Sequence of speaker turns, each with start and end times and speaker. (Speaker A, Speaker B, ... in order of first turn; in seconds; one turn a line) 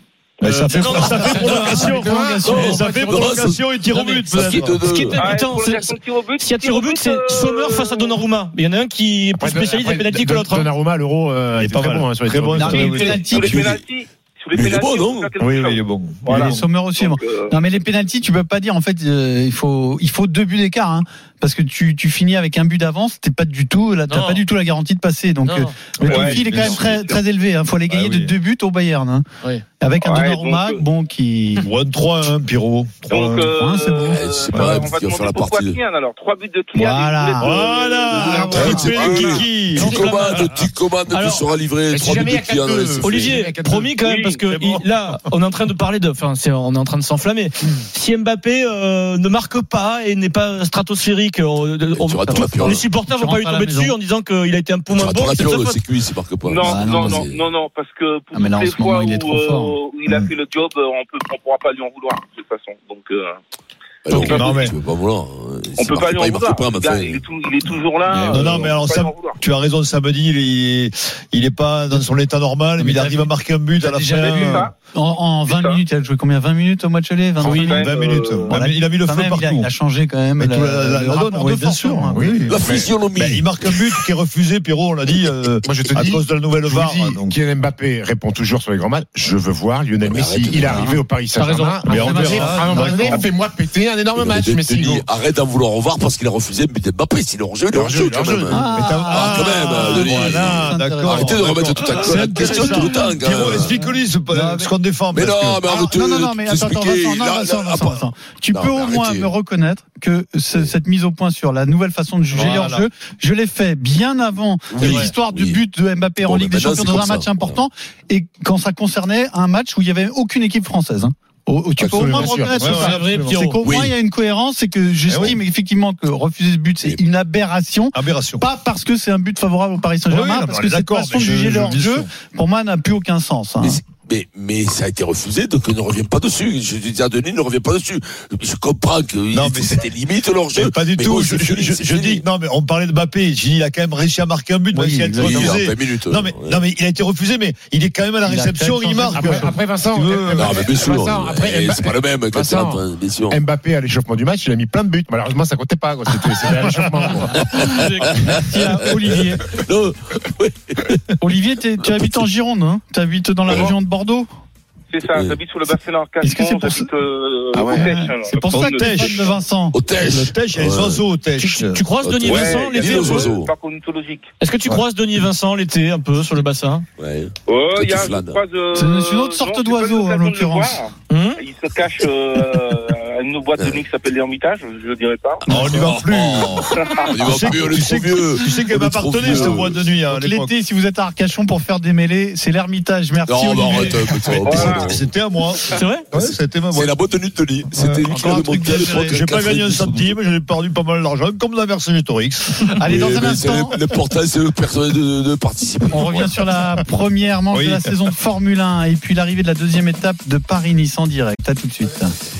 Speaker A: 0.4-4.8
Speaker B: 0.6-1.9
Speaker C: 0.7-2.8
Speaker D: 1.1-3.5
Speaker E: 2.4-5.2
Speaker B: 4.8-10.7
Speaker F: 5.2-8.2
Speaker D: 9.4-13.2
Speaker A: 11.6-13.7
Speaker C: 12.5-13.6
Speaker F: 12.9-17.5
Speaker E: 13.5-13.8
Speaker E: 14.5-15.3
Speaker A: 15.4-16.7
Speaker C: 16.3-29.2
Speaker B: 24.1-24.4
Speaker B: 25.4-26.4
Speaker A: 26.0-26.8
Speaker F: 26.1-27.2
Speaker A: 27.9-28.3
Speaker C: 29.8-31.7
Speaker F: 30.0-30.9
Speaker A: 31.6-33.5
Speaker F: 33.1-38.5
Speaker C: 33.6-34.2
Speaker E: 34.1-35.8
Speaker C: 36.7-38.9
Speaker A: 37.4-40.0
Speaker D: 38.5-40.1
Speaker E: 38.5-43.4
Speaker B: 39.7-41.5
Speaker D: 41.9-44.0
Speaker B: 43.0-55.8
Speaker F: 44.0-44.5
Speaker E: 51.9-52.8
Speaker C: 52.2-54.0
Speaker E: 54.9-57.5
Speaker F: 56.4-63.4
Speaker C: 56.6-57.2
Speaker C: 58.3-59.8
Speaker E: 64.0-67.2
Speaker A: 64.1-64.8
Speaker F: 64.1-64.7
Speaker F: 65.8-69.4
Speaker A: 68.1-74.7
Speaker C: 72.8-77.9
Speaker F: 74.2-74.8
Speaker F: 75.5-75.8
Speaker F: 77.4-78.5
Speaker A: 77.4-79.7
Speaker B: 77.5-77.7
Speaker C: 78.5-82.4
Speaker A: 80.4-82.6
Speaker D: 82.1-82.9
Speaker E: 82.5-83.5
Speaker A: 83.1-87.3
Speaker D: 85.6-95.0
Speaker E: 90.0-90.9
Speaker C: 90.6-91.0
Speaker B: 91.3-92.6
Speaker A: 91.8-93.2
Speaker C: 91.9-93.3
Speaker E: 94.1-103.9
Speaker D: 97.7-98.6
Speaker C: 98.5-101.5
Speaker A: 98.7-105.6
Speaker C: 102.4-103.0
Speaker C: 103.8-104.7
Speaker E: 105.1-109.3
Speaker C: 105.7-133.8
Speaker A: 112.3-112.9
Speaker E: 114.7-115.6
Speaker E: 116.2-117.6
Speaker D: 121.8-122.9
Speaker A: 122.6-123.2
Speaker B: 122.7-123.6
Speaker E: 123.6-123.9
Speaker A: 125.1-125.4
Speaker A: 127.9-128.4
Speaker A: 130.1-132.1
Speaker E: 133.6-142.2
Speaker A: 139.3-139.9
Speaker A: 140.5-150.6
Speaker C: 144.7-145.6
Speaker E: 145.2-146.6
Speaker C: 148.2-149.6
Speaker D: 149.1-157.6
Speaker E: 150.3-153.4
Speaker E: 157.4-161.0
Speaker B: 157.7-158.2
Speaker C: 158.3-159.5
Speaker C: 161.2-164.3
Speaker E: 161.9-162.3
Speaker F: 164.9-169.2
Speaker E: 165.0-165.4
Speaker C: 166.2-166.9
Speaker C: 167.7-169.8
Speaker A: 168.5-169.3
Speaker E: 169.7-171.1
Speaker A: 170.0-171.8
Speaker B: 171.4-173.3
Speaker E: 172.0-173.5
Speaker F: 172.2-174.3
Speaker B: 174.4-176.8
Speaker E: 177.0-178.4
Speaker F: 177.5-185.5
Speaker C: 178.7-180.8
Speaker B: 181.1-181.4
Speaker E: 183.6-183.8
Speaker A: 185.4-190.5
Speaker C: 185.5-185.8
Speaker E: 185.5-189.9
Speaker F: 186.8-187.1
Speaker C: 189.3-194.2
Speaker E: 193.2-195.0
Speaker F: 194.3-194.9
Speaker A: 194.8-196.9
Speaker B: 195.7-196.1
Speaker E: 196.2-200.2
Speaker A: 197.7-198.4
Speaker C: 198.1-199.2
Speaker A: 199.0-202.7
Speaker C: 202.7-203.8
Speaker E: 202.8-206.4
Speaker C: 205.9-212.1
Speaker A: 207.5-208.1